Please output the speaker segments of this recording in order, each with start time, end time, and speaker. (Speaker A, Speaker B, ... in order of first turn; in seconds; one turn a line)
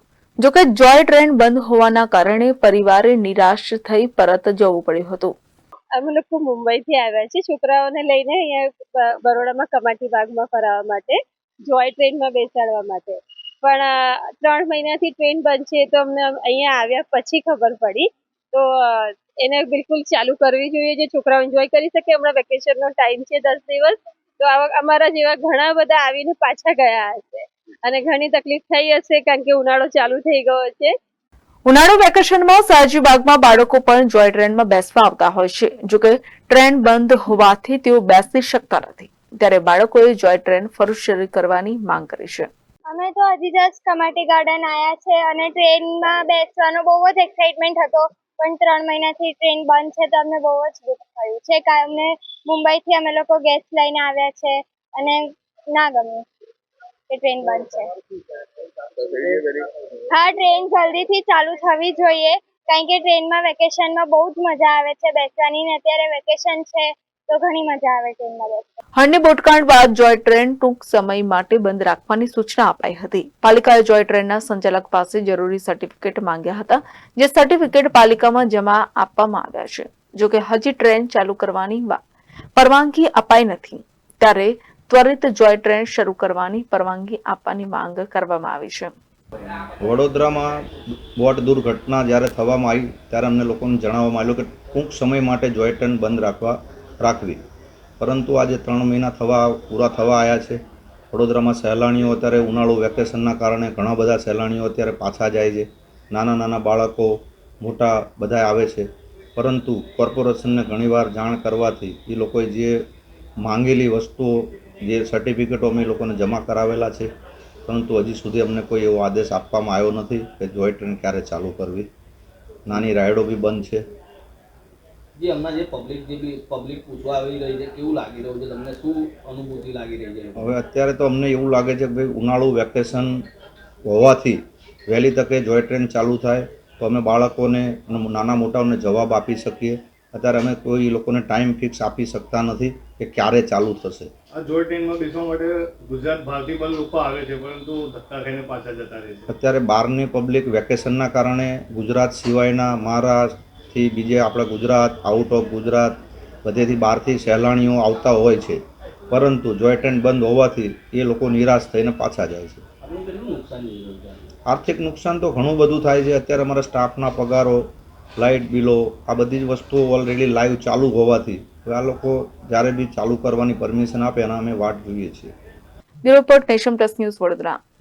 Speaker A: 0.4-5.3
Speaker B: 6.0-30.9
Speaker A: 31.6-42.5
Speaker C: 42.9-56.2
Speaker C: 57.1-57.9
Speaker C: 60.1-68.7
Speaker A: 69.0-82.0
Speaker A: 82.5-88.9
Speaker D: 89.8-97.4
Speaker D: 98.0-100.6
Speaker D: 101.1-112.9
Speaker D: 113.4-117.1
Speaker D: 117.7-121.9
Speaker D: 122.7-123.8
Speaker E: 125.2-130.5
Speaker D: 130.4-133.2
Speaker D: 133.8-144.1
Speaker F: 144.3-149.3
Speaker D: 149.3-162.6
Speaker E: 162.8-164.2
Speaker D: 164.5-175.3
Speaker A: 176.0-177.6